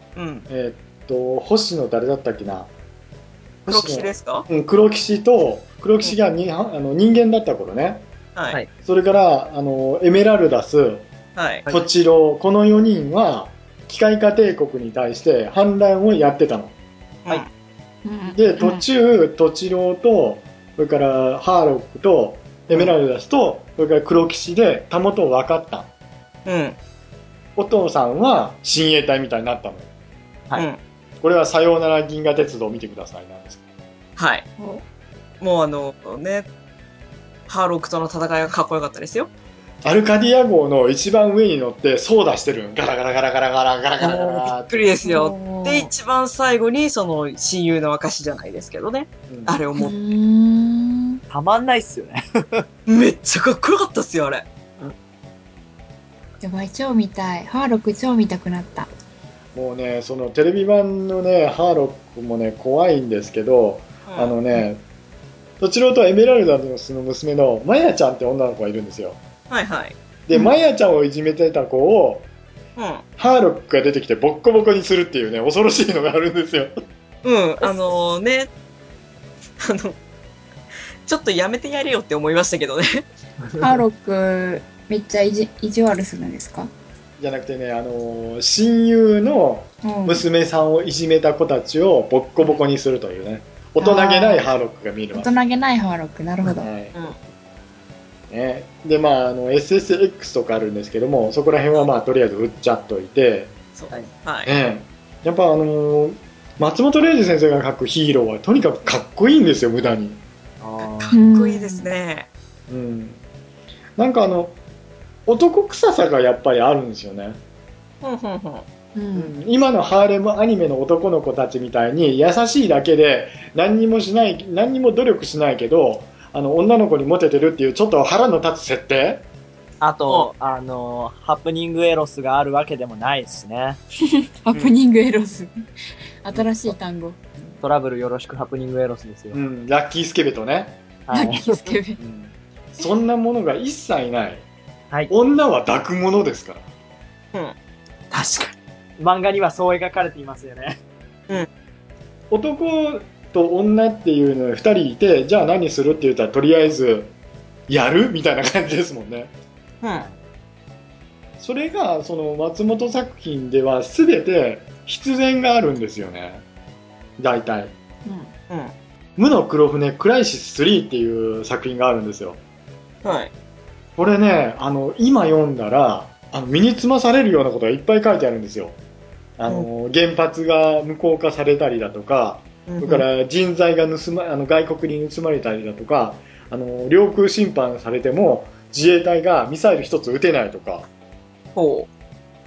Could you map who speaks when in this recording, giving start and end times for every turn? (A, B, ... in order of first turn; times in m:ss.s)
0:00.2-0:00.5 A
0:00.5-0:02.7 B
0:03.7-0:08.0 B
0:03.7-0:04.5 A
0:08.8-0:11.1 B
0:11.4-0:11.6 A
0:11.7-0:16.7 B
0:18.0-0:18.8 C
0:18.3-0:25.9 B
0:26.4-0:26.8 A
0:27.6-0:29.9 B
0:31.2-0:33.6 B
0:34.2-0:34.5 A
0:35.4-0:36.5 A
0:37.5-0:39.3 A
0:39.8-0:44.8 B
0:44.0-0:50.0 A
0:45.0-0:45.9 C
0:49.3-0:49.6 B
0:49.7-0:51.2 C
0:51.3-0:52.6 D
0:52.9-0:54.5 A
0:56.4-0:58.9 C
0:59.6-1:04.8 B
1:04.1-1:04.3 A
1:05.6-1:09.2 B
1:09.5-1:10.0 A
1:10.3-1:12.3 B
1:12.8-1:13.0 A
1:13.2-1:16.7 B
1:17.2-1:18.5 A
1:19.6-1:20.0 A
1:21.1-1:23.1 A
1:23.6-1:26.7 C
1:27.2-1:35.3 B
1:29.8-1:30.2 C
1:33.8-1:34.5 C
1:35.1-1:36.7 C
1:36.5-1:36.9 B
1:38.3-1:43.5 B
1:43.8-1:44.5 A
1:44.5-1:50.2 B
1:50.6-1:51.2 D
1:50.8-1:52.3 A
1:51.1-1:51.9 C
1:52.7-1:53.2 B
1:54.0-1:54.6 B
1:55.3-1:57.4 B
1:58.0-1:58.6 A
1:59.0-1:59.3 C
1:59.2-2:09.2 B
2:09.8-2:13.8 D
2:14.4-2:15.5 C
2:16.2-2:17.2 C
2:17.6-2:19.4 D
2:19.3-2:20.8 B
2:21.1-2:21.8 D
2:21.1-2:22.0 C
2:22.0-2:24.4 B
2:25.1-2:26.6 B
2:28.1-2:30.8 D
2:32.3-2:37.1 B
2:37.7-2:39.3 B
2:41.4-2:46.4 B
2:47.2-2:47.7 B
2:48.0-2:48.3 C
2:49.2-2:52.4 B
2:53.0-2:53.3 A
2:54.0-2:58.8 B
2:59.4-3:10.9 B
3:02.7-3:03.0 A
3:11.6-3:11.9 A